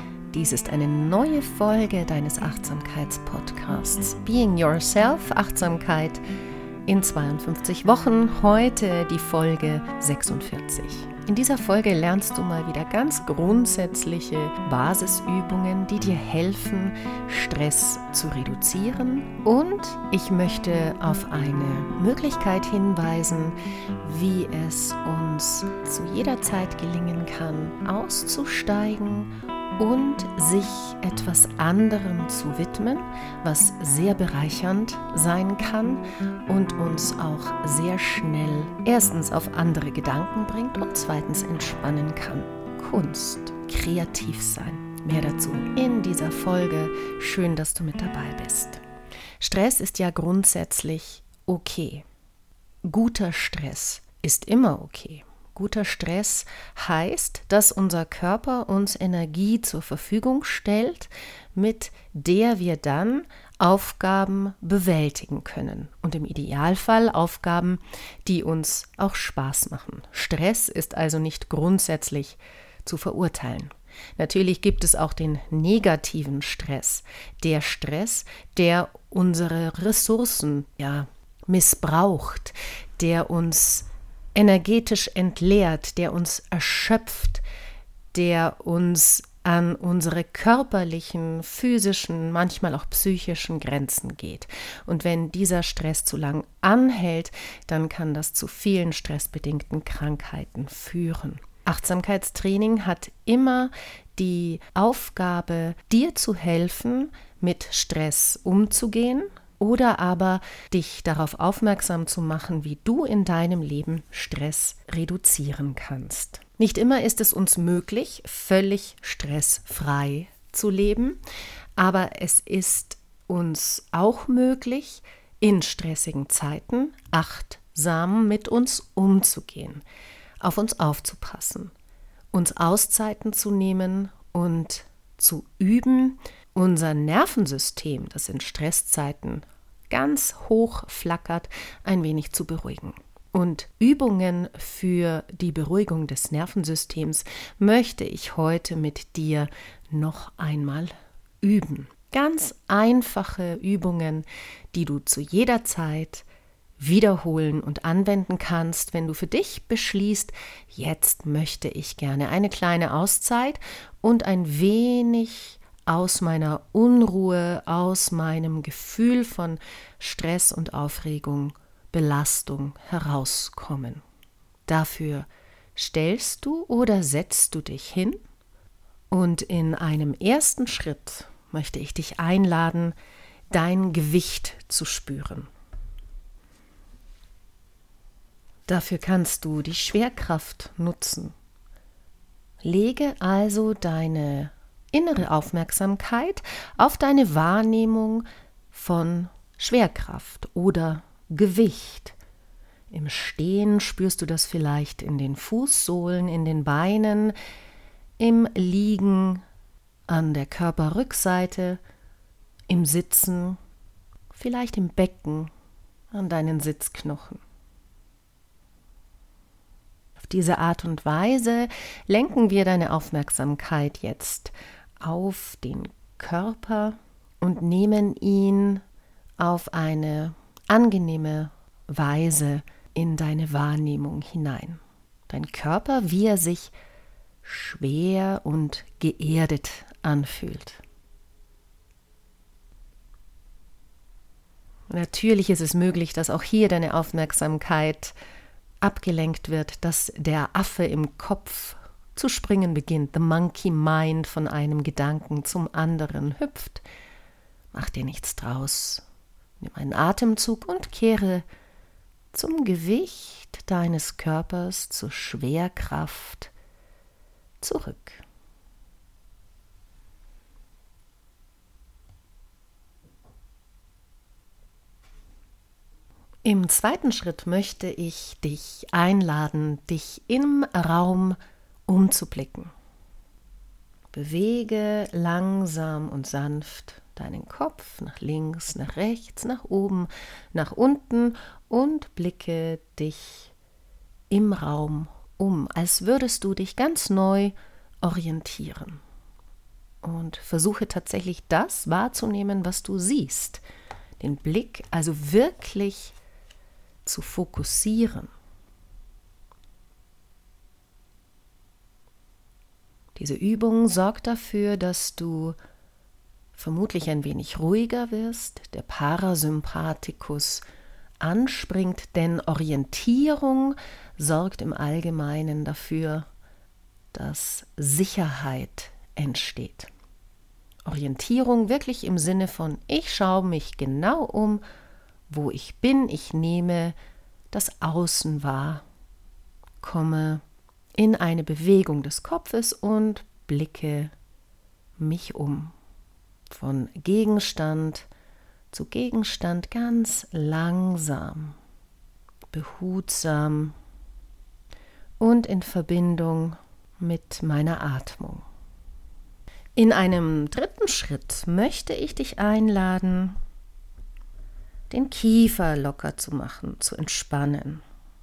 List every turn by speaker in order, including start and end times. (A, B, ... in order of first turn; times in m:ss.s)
0:00.3-0:06.2 A
0:06.8-0:48.8 A
0:49.4-0:52.0 A
0:52.8-1:27.4 A
1:28.1-2:01.2 A
2:01.8-2:09.8 A
2:10.4-2:11.7 A
2:12.3-2:36.2 A
2:36.8-2:54.0 A
2:54.7-2:58.2 A
2:59.1-3:02.9 A
3:03.5-3:05.5 A
3:08.7-3:11.3 A
3:12.6-3:22.2 A
3:22.9-3:27.4 A
3:28.2-3:29.4 A
3:30.1-3:31.8 A
3:32.7-3:33.6 A
3:34.3-3:35.5 A
3:36.1-3:37.4 A
3:40.2-3:48.8 A
3:49.4-3:56.7 A
3:57.4-4:00.8 A
4:04.9-4:08.1 A
4:08.8-4:16.8 A
4:17.7-4:19.0 A
4:19.6-4:21.4 A
4:22.3-4:26.5 A
4:27.6-4:28.2 A
4:36.4-4:42.7 A
4:44.1-4:53.5 A
4:54.3-4:59.0 A
5:00.0-5:03.6 A
5:04.2-5:06.2 A
5:07.0-5:08.3 A
5:13.1-5:15.6 A
5:16.5-5:20.6 A
5:21.2-5:26.3 A
5:27.1-5:29.9 A
5:30.8-5:34.6 A
5:35.3-5:37.0 A
5:37.5-5:38.8 A
5:39.8-5:40.4 A
5:40.9-5:44.1 A
5:45.0-5:45.7 A
5:46.5-5:48.1 A
5:48.7-5:51.6 A
5:52.5-5:53.8 A
5:55.2-5:58.4 A
5:59.8-6:03.4 A
6:04.9-6:07.8 A